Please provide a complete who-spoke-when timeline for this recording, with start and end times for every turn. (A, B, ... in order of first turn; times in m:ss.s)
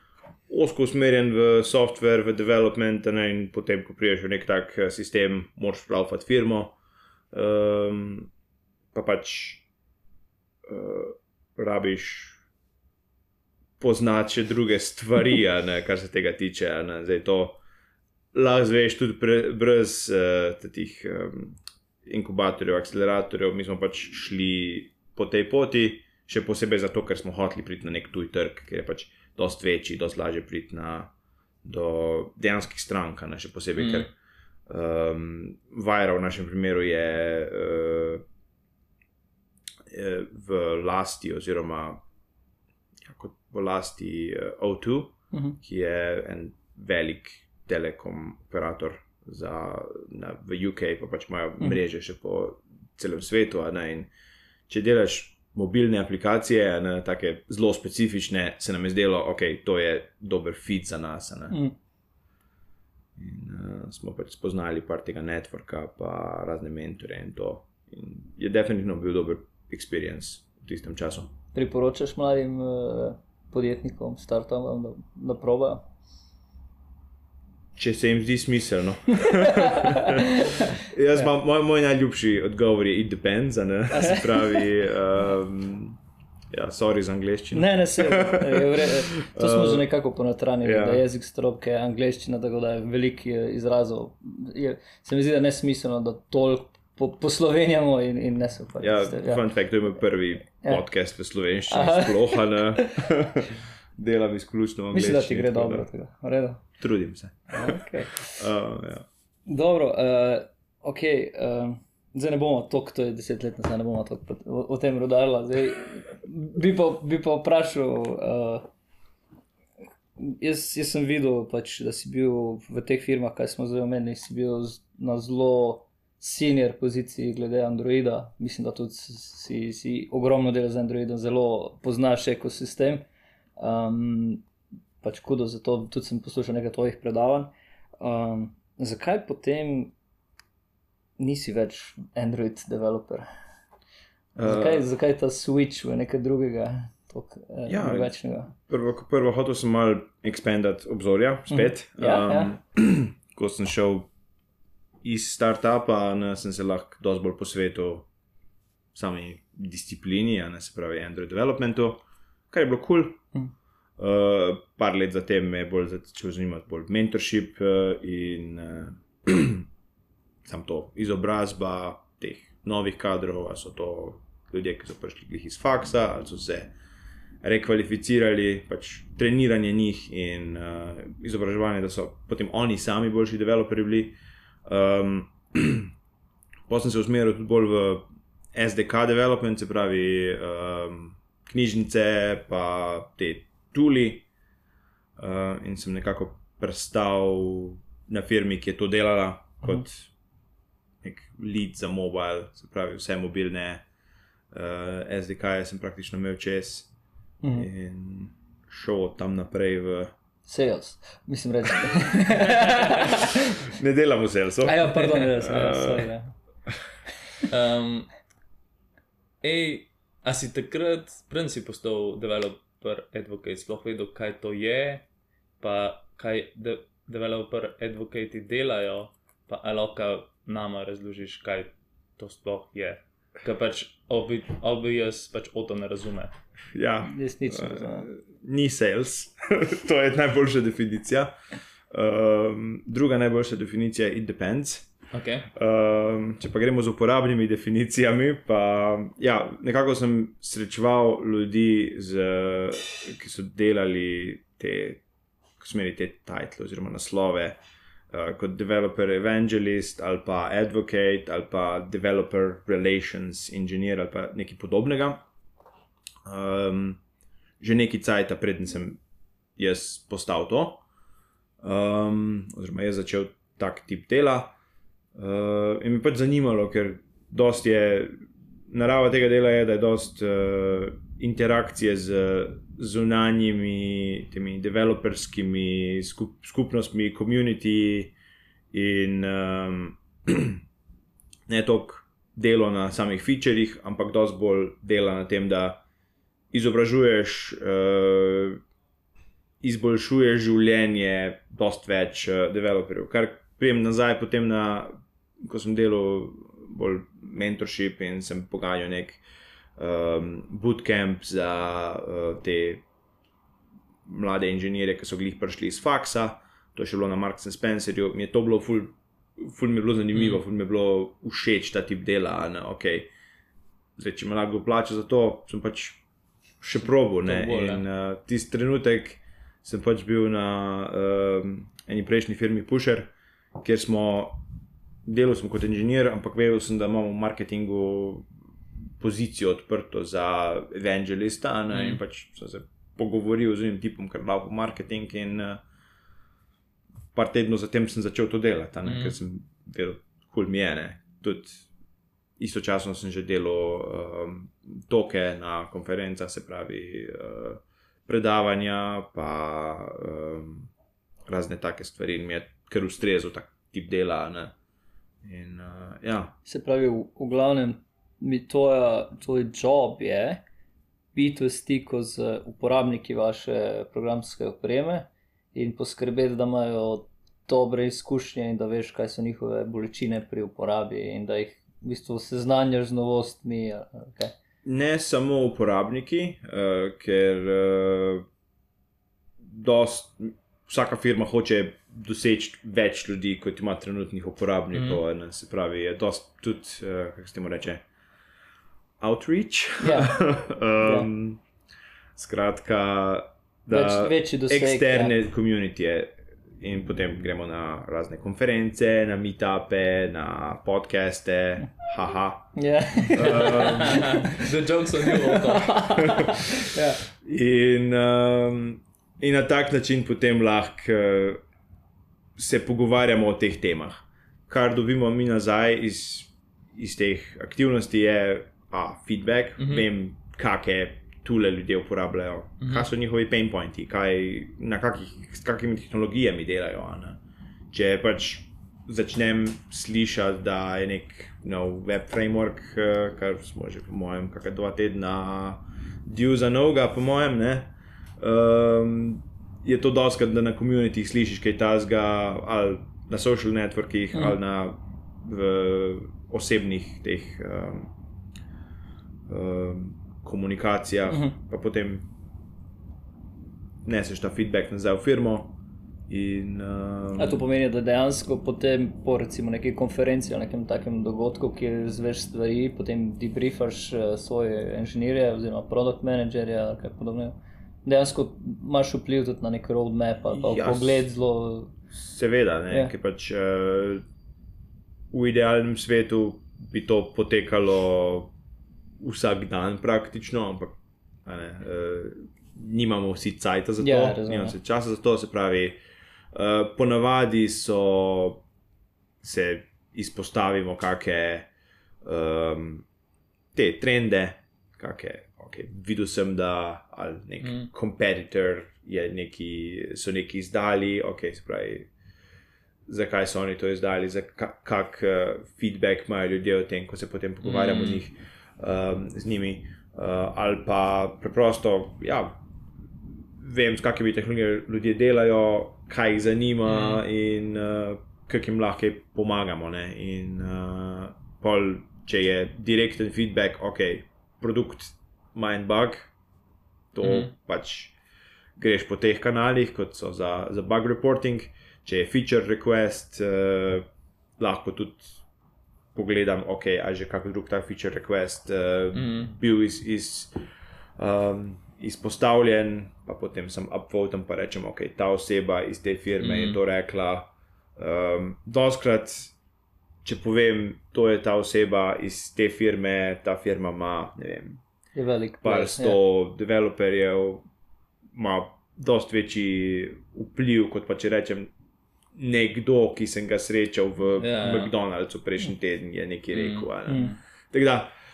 0:00.5-0:06.8 A
0:07.3-0:08.3 A
0:08.9-0:09.6 A
0:10.6-0:12.4 A
0:13.8-0:17.6 A
0:18.3-0:31.1 A
0:31.6-0:34.1 A
0:33.8-0:34.1 B
0:34.7-0:38.2 A
0:39.9-0:42.0 A
0:43.0-0:54.1 A
0:45.3-0:45.6 C
0:54.7-1:01.6 A
1:01.5-1:01.7 C
1:03.2-1:11.3 A
1:11.5-1:15.8 C
1:17.8-1:26.0 A
1:19.2-1:20.8 C
1:23.9-1:24.7 C
1:26.5-1:29.9 A
1:27.5-1:39.4 C
1:30.6-1:31.0 A
1:38.8-1:45.9 A
1:41.7-1:43.1 C
1:44.9-1:46.6 C
1:46.8-1:49.1 A
1:47.5-1:48.2 C
1:49.5-1:58.6 C
2:00.2-2:13.0 C
2:13.6-2:14.4 C
2:15.0-2:19.9 C
2:21.2-2:23.3 C
2:24.4-2:24.9 A
2:24.4-2:28.5 C
2:27.7-2:34.1 A
2:31.5-2:32.5 C
2:35.0-2:38.1 A
2:38.9-2:43.2 A
2:44.0-2:49.7 A
2:50.4-2:56.7 A
2:57.4-3:05.9 A
3:06.7-3:14.3 A
3:15.2-3:20.1 A
3:21.0-3:23.8 A
3:24.5-3:26.9 A
3:27.4-3:27.7 C
3:27.5-3:30.1 A
3:30.4-3:33.7 C
3:33.0-3:36.1 A
3:34.6-3:36.3 C
3:37.5-3:38.1 B
3:39.4-3:45.0 B
3:45.6-3:56.3 B
3:56.7-4:01.3 A
3:57.0-3:58.1 C
4:01.9-4:04.9 A
4:05.1-4:05.5 B
4:05.5-4:15.0 A
4:15.6-4:17.6 A
4:18.1-4:25.2 A
4:26.2-4:27.0 A
4:27.6-4:29.0 A
4:29.6-4:30.8 A
4:31.6-4:34.5 A
4:35.2-4:38.2 A
4:38.7-4:48.1 A
4:48.7-4:50.6 A
4:51.5-4:55.8 A
4:56.5-4:58.6 A
4:59.6-5:09.2 A
5:09.8-5:12.8 A
5:14.0-5:23.1 A
5:20.1-5:20.4 B
5:24.0-5:26.0 A
5:26.6-5:34.4 A
5:27.2-5:27.8 B
5:35.0-5:38.3 A
5:38.8-5:45.6 A
5:41.7-5:42.0 B
5:47.1-5:51.7 A
5:48.8-5:49.2 B
5:52.4-6:00.7 A
6:01.3-6:04.5 A
6:05.2-6:06.4 A
6:06.4-6:10.4 C
6:11.1-6:24.3 C
6:24.6-6:28.2 A
6:29.4-6:37.8 A
6:34.7-6:35.0 B
6:39.0-6:41.4 A
6:39.8-6:40.1 C
6:40.8-6:41.1 C
6:42.2-6:54.1 A
6:43.7-6:45.1 C
6:52.6-6:57.0 C
6:53.3-6:56.3 B
6:56.0-7:01.4 A
7:02.4-7:17.2 A
7:09.6-7:09.9 B
7:12.6-7:12.9 B
7:17.7-7:37.9 A
7:39.3-7:42.1 A
7:41.1-7:41.4 C
7:43.8-7:47.4 A
7:47.2-8:01.7 C
8:00.3-8:01.1 A
8:01.9-8:04.0 A
8:05.1-8:08.3 A
8:09.0-8:15.8 A
8:13.8-8:14.6 C
8:16.3-8:18.4 A
8:19.2-8:21.5 A
8:22.0-8:22.8 A
8:23.5-8:31.9 A
8:27.4-8:27.7 B
8:32.9-8:42.4 A
8:37.4-8:38.0 B
8:43.4-8:56.1 A
8:46.6-8:47.0 B
8:56.9-8:57.9 A
8:57.0-8:57.3 B
8:58.6-9:03.9 A
9:04.4-9:05.2 A
9:05.9-9:10.3 A
9:08.9-9:09.3 B
9:11.0-9:19.3 A
9:16.2-9:16.6 B
9:20.0-9:24.6 A
9:24.9-9:26.0 C
9:25.4-9:27.4 A
9:28.1-9:31.5 A
9:32.1-9:37.9 A
9:34.2-9:34.7 B
9:36.3-9:37.1 B
9:36.9-9:37.1 C